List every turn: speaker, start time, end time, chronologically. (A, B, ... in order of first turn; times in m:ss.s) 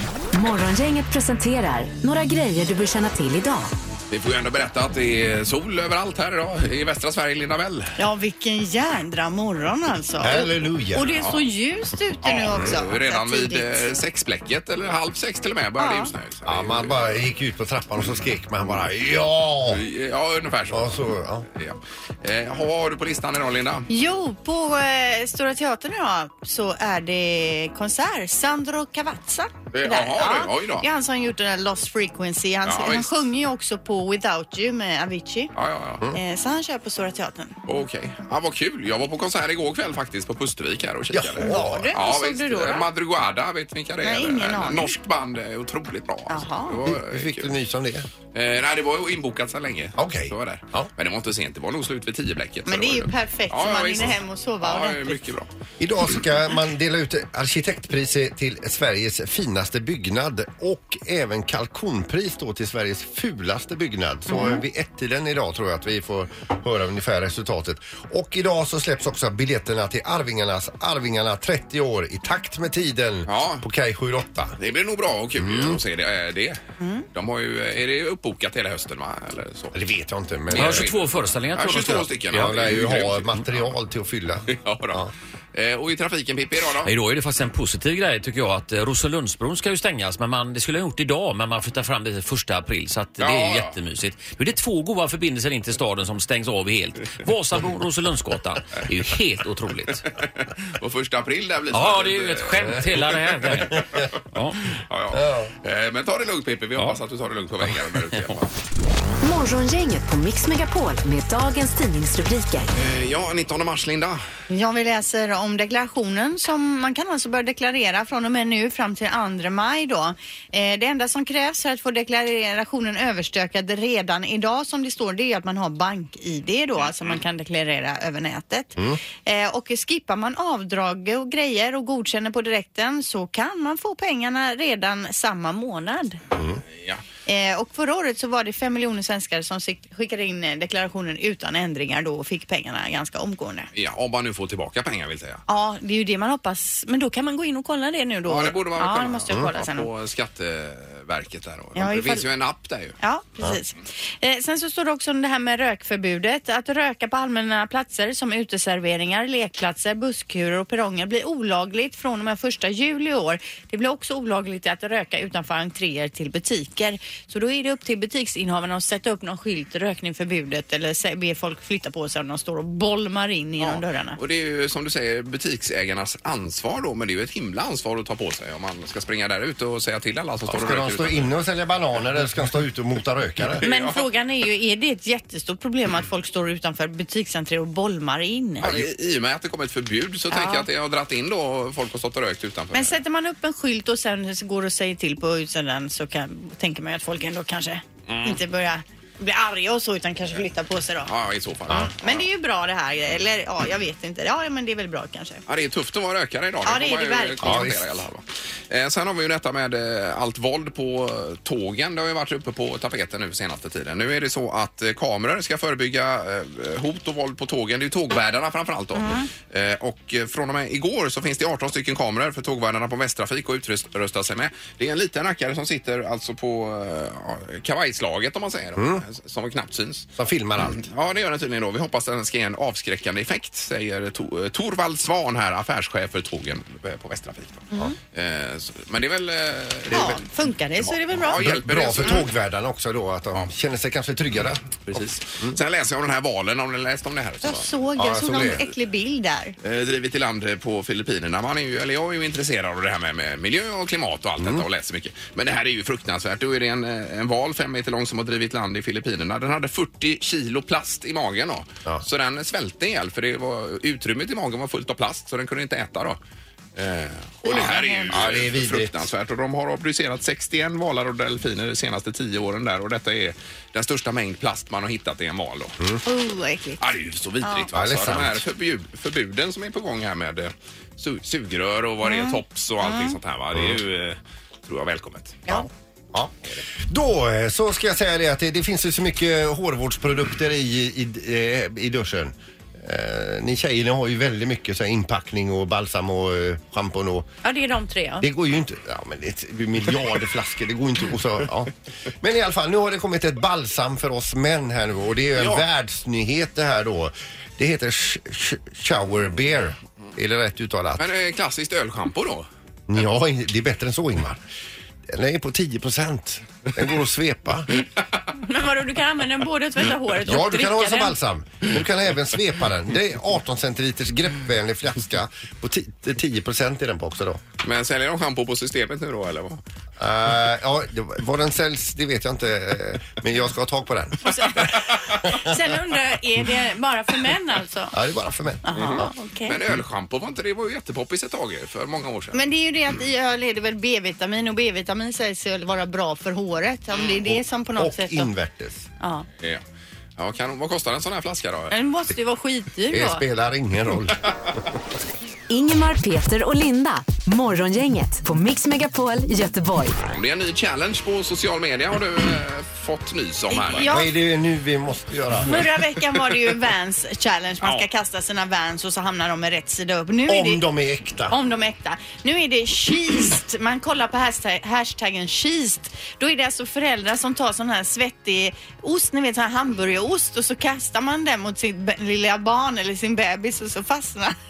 0:00.3-0:03.7 A
0:04.1-0:08.0 B
0:08.0-0:14.0 C
0:10.2-0:11.1 D
0:12.2-0:17.2 B
0:15.8-0:16.1 C
0:16.4-0:19.8 D
0:19.7-0:23.9 B
0:20.7-0:21.5 D
0:23.9-0:35.5 C
0:29.7-0:30.9 B
0:32.6-0:33.1 B
0:35.5-0:36.1 B
0:36.1-0:37.5 C
0:37.7-0:47.5 B
0:41.1-0:41.9 D
0:41.4-0:42.9 C
0:44.0-0:44.9 C
0:46.3-0:46.8 C
0:46.8-0:48.1 D
0:48.3-0:55.5 B
0:50.0-0:50.9 D
0:52.6-0:55.2 C
0:55.8-1:14.6 D
1:04.3-1:04.6 C
1:13.3-1:13.6 B
1:14.6-1:16.6 B
1:15.4-1:15.8 D
1:16.8-1:17.0 C
1:17.1-1:19.8 B
1:19.7-1:20.9 D
1:20.5-1:23.6 B
1:20.5-1:22.5 E
1:22.3-1:25.1 D
1:24.5-1:26.9 B
1:26.8-1:40.0 E
1:33.2-1:33.8 B
1:40.2-1:44.0 B
1:41.7-1:44.6 E
1:43.7-1:44.1 D
1:44.9-1:48.5 B
1:45.1-1:45.5 D
1:49.2-1:52.7 A
1:52.7-1:54.2 B
1:54.5-2:16.2 C
2:16.3-2:16.6 D
2:16.7-2:17.0 B
2:17.3-2:23.7 C
2:23.7-2:25.4 B
2:25.5-2:29.9 C
2:28.2-2:33.0 B
2:31.7-2:32.2 C
2:33.0-2:54.2 C
2:53.6-3:01.3 B
3:00.5-3:03.6 D
3:03.6-3:04.0 B
3:03.6-3:08.7 C
3:08.6-3:13.0 B
3:10.3-3:10.7 C
3:12.7-3:21.1 C
3:18.1-3:18.4 B
3:21.0-3:22.2 B
3:21.7-3:25.4 C
3:25.5-3:50.1 B
3:26.6-3:27.7 C
3:27.4-3:28.0 D
3:38.9-3:39.3 C
3:48.8-3:49.0 D
3:50.2-3:50.8 D
3:50.6-4:00.2 B
3:59.9-4:00.2 D
3:59.9-4:01.4 C
4:00.8-4:02.3 B
4:01.3-4:05.6 D
4:04.9-4:07.7 B
4:07.4-4:09.6 C
4:08.0-4:08.7 D
4:09.6-4:26.2 B
4:14.4-4:14.6 D
4:26.8-4:35.8 B
4:27.4-4:28.3 C
4:28.1-4:29.1 D
4:36.0-4:36.8 C
4:36.8-4:44.2 B
4:37.7-4:38.4 D
4:42.0-4:43.2 C
4:44.7-4:45.5 B
4:45.5-4:57.3 D
4:57.4-4:58.2 C
4:58.2-5:11.0 D
5:05.4-5:05.6 B
5:11.0-5:12.5 B
5:12.9-5:14.4 D
5:15.1-5:17.7 D
5:18.3-5:21.1 C
5:20.2-5:27.4 D
5:27.6-5:29.6 B
5:30.0-5:34.6 D
5:34.2-5:37.9 C
5:35.3-5:35.5 D
5:37.9-5:39.1 D
5:38.6-5:39.6 C
5:38.7-5:42.4 B
5:42.3-5:48.3 C
5:47.3-5:48.9 D
5:49.0-5:49.2 C
5:50.2-5:51.7 B
5:51.7-5:53.2 C
5:52.9-5:54.2 D
5:55.5-6:00.0 A
6:00.0-6:03.9 B
6:03.5-6:04.1 C
6:03.8-6:05.6 D
6:05.4-6:10.6 C
6:10.3-6:11.3 D
6:11.3-6:24.3 C